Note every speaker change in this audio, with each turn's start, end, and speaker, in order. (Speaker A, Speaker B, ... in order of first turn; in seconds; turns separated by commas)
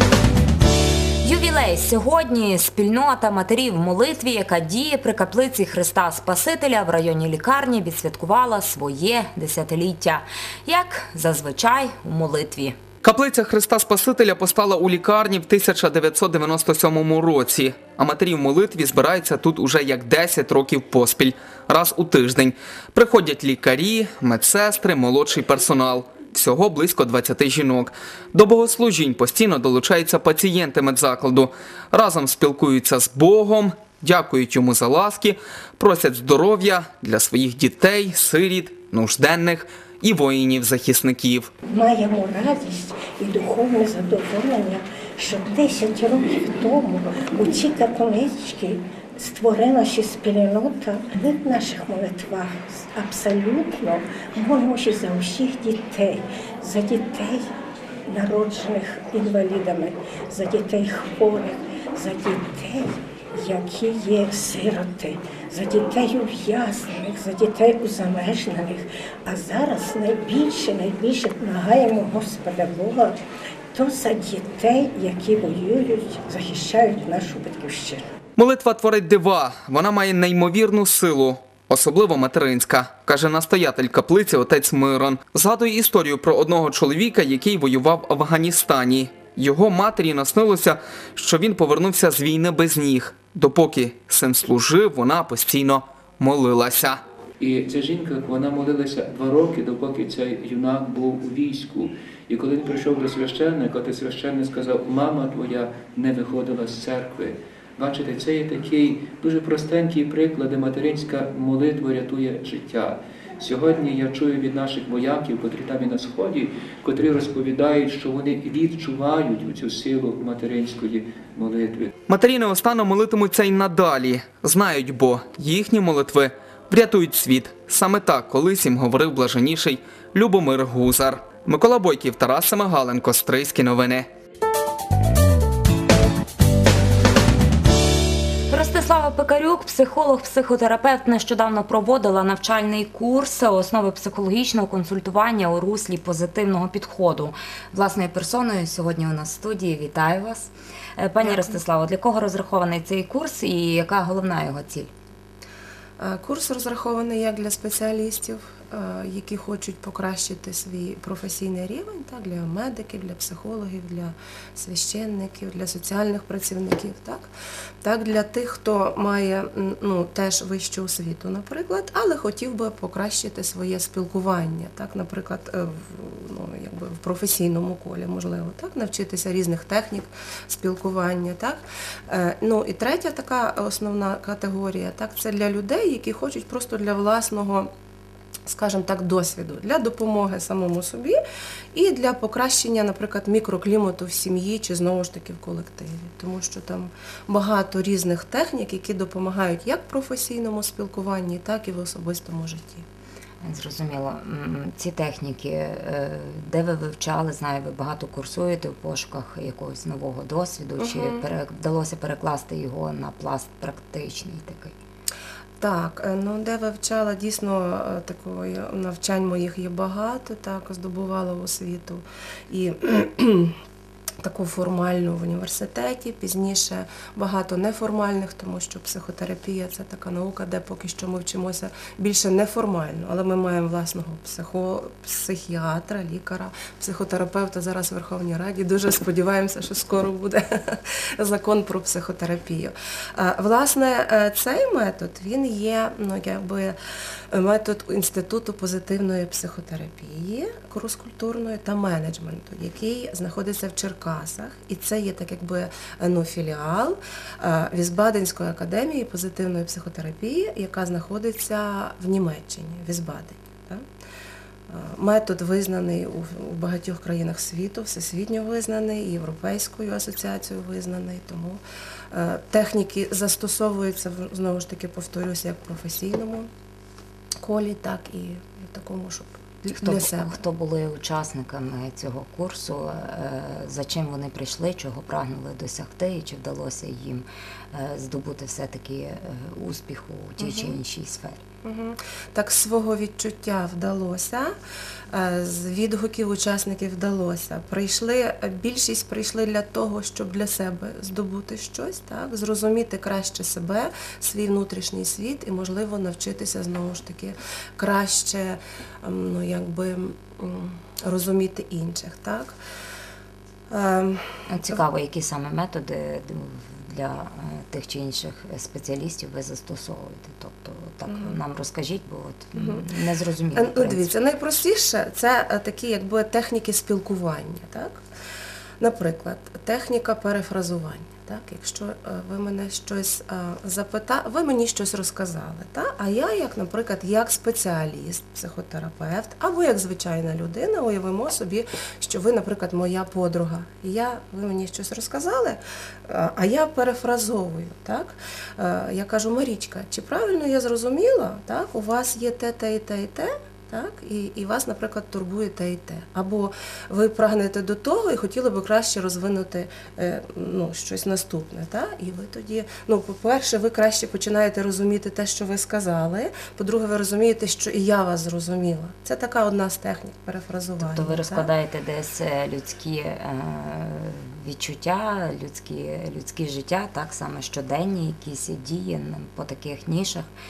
Speaker A: 1.2-12.8, Speaker B: 13.0-41.5, Speaker C: 41.7-57.5, Speaker C: 58.1-73.2, Speaker C: 73.7-78.0, Speaker B: 78.4-97.0, Speaker D: 97.4-121.9, Speaker B: 122.1-134.1, Speaker A: 138.5-154.9, Speaker E: 151.2-151.6, Speaker E: 156.0-167.3, Speaker E: 167.8-187.7, Speaker E: 188.5-191.2, Speaker E: 191.7-202.8, Speaker A: 203.4-214.7, Speaker E: 210.8-211.2, Speaker E: 215.6-223.5, Speaker E: 224.2-246.8, Speaker E: 247.3-263.8, Speaker E: 264.7-276.5, Speaker E: 277.4-280.4, Speaker A: 279.8-291.4, Speaker E: 290.4-290.7, Speaker E: 291.6-294.5, Speaker E: 295.1-312.6, Speaker E: 313.7-314.8, Speaker A: 314.5-324.1, Speaker E: 321.1-321.4, Speaker E: 322.6-322.9, Speaker E: 323.6-328.0, Speaker E: 328.8-371.5, Speaker A: 370.8-380.3